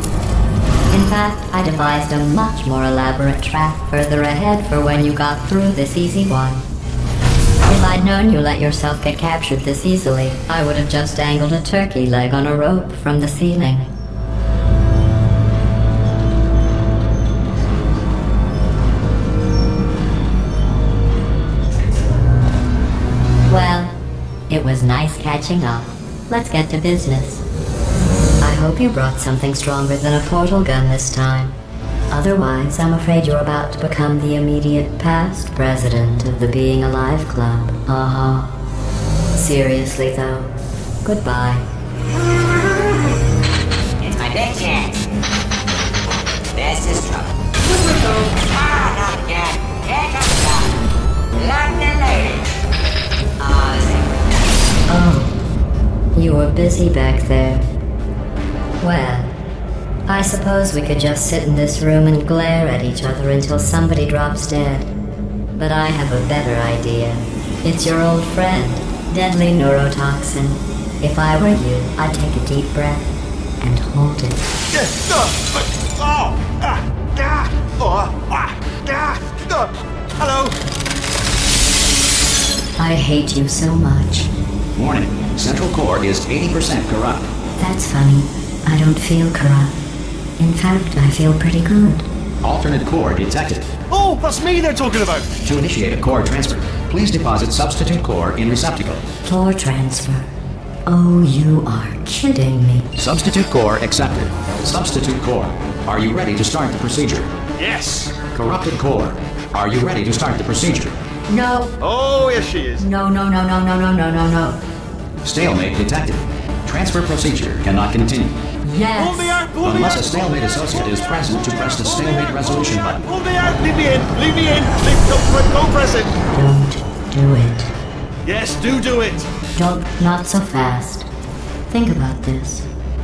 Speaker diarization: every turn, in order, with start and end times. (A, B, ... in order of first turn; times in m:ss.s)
0:00.9-0:06.6 A
0:07.6-0:13.9 A
0:23.5-0:24.0 A
0:24.5-0:27.4 A
0:28.4-0:31.6 A
0:32.1-0:38.5 A
0:39.3-0:41.6 A
0:44.0-0:45.0 B
0:46.5-0:50.7 B
0:51.4-0:52.4 B
0:53.4-0:54.1 B
0:54.9-0:55.4 A
0:56.1-0:57.7 A
0:58.8-0:59.3 A
1:00.1-1:04.9 A
1:05.5-1:13.1 A
1:13.6-1:14.4 A
1:14.7-1:20.6 C
1:22.8-1:24.3 A
1:24.8-1:27.2 D
1:27.6-1:29.8 A
1:30.4-1:32.1 A
1:32.4-1:33.7 D
1:33.9-1:35.3 C
1:35.4-1:39.0 D
1:39.2-1:40.3 A
1:40.8-1:42.9 A
1:43.0-1:47.3 D
1:47.6-1:48.2 C
1:48.3-1:51.0 D
1:51.3-1:51.7 A
1:51.8-1:52.9 C
1:52.8-1:54.6 A
1:55.2-1:58.3 D
1:58.6-1:59.4 A
1:58.9-2:06.1 C
1:59.6-2:03.0 D
2:06.3-2:07.7 A
2:08.2-2:09.3 C
2:09.6-2:11.1 A
2:11.7-2:12.7 A